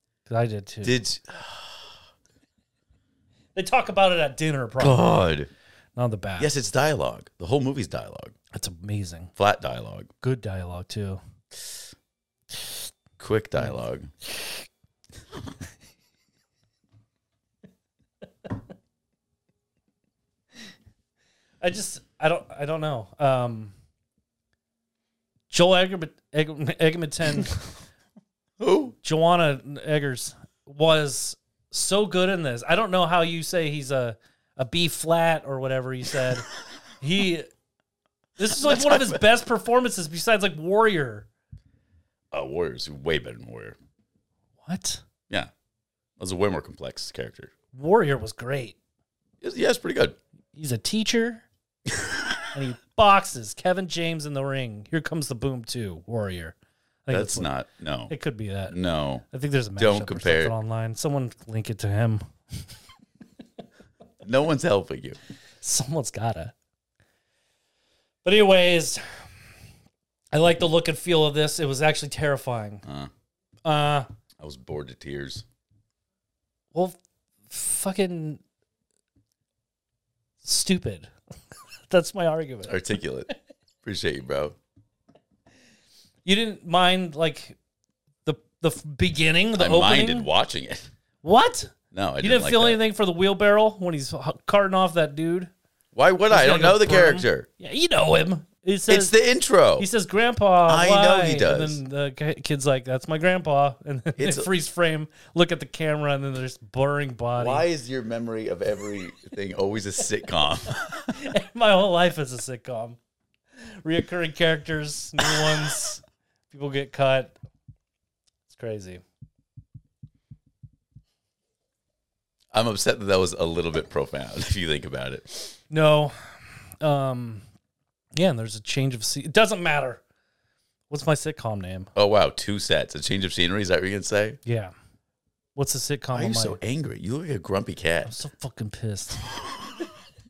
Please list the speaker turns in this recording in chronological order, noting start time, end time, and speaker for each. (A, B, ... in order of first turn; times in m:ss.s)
0:00.3-0:01.0 A
0:00.8-0:01.9 B
0:03.5-0:05.2 A
0:04.8-0:05.5 B
0:06.0-0:06.5 A
0:06.4-0:08.3 B
0:08.5-0:09.3 A
0:09.4-0:10.1 B
0:10.2-0:11.2 A
0:13.2-0:14.1 B
0:21.6-0:23.7 A
0:25.5-0:27.6 A
0:28.6-0:29.0 B
0:29.0-0:36.5 A
0:37.0-0:37.5 A
0:38.4-0:41.3 A
0:38.5-0:39.2 B
0:42.3-0:43.8 B
0:44.6-0:45.0 A
0:46.2-0:47.5 B
0:47.7-0:48.8 A
0:49.4-0:50.2 B
0:50.5-0:51.4 A
0:51.9-0:52.5 B
0:52.5-0:57.5 A
0:57.1-0:58.1 B
0:58.1-0:58.8 A
0:58.7-0:59.2 B
0:59.3-1:02.2 A
0:59.8-1:00.5 B
1:04.2-1:05.2 B
1:05.6-1:06.5 A
1:08.2-1:09.0 A
1:10.3-1:12.8 A
1:12.8-1:13.1 B
1:13.6-1:14.1 A
1:14.4-1:15.4 B
1:17.5-1:18.4 A
1:20.4-1:21.1 A
1:21.9-1:22.8 A
1:22.6-1:23.3 B
1:23.8-1:24.6 B
1:26.2-1:27.6 A
1:28.2-1:30.3 A
1:29.6-1:30.9 B
1:31.2-1:35.5 A
1:31.9-1:32.8 B
1:35.9-1:37.5 B
1:36.3-1:39.1 A
1:38.9-1:39.9 B
1:39.8-1:47.6 A
1:40.7-1:41.8 B
1:44.2-1:44.5 B
1:47.4-1:51.2 B
1:51.1-1:53.0 A
1:53.8-1:57.3 A
1:55.2-1:55.8 B
1:58.5-1:59.0 A
2:02.5-2:05.6 B
2:05.7-2:06.1 A
2:06.8-2:07.4 A
2:08.2-2:10.0 A
2:10.9-2:11.9 A
2:11.9-2:14.4 B
2:14.4-2:14.7 A
2:15.6-2:16.6 A
2:16.1-2:18.1 B
2:18.0-2:19.2 A
2:19.2-2:19.9 B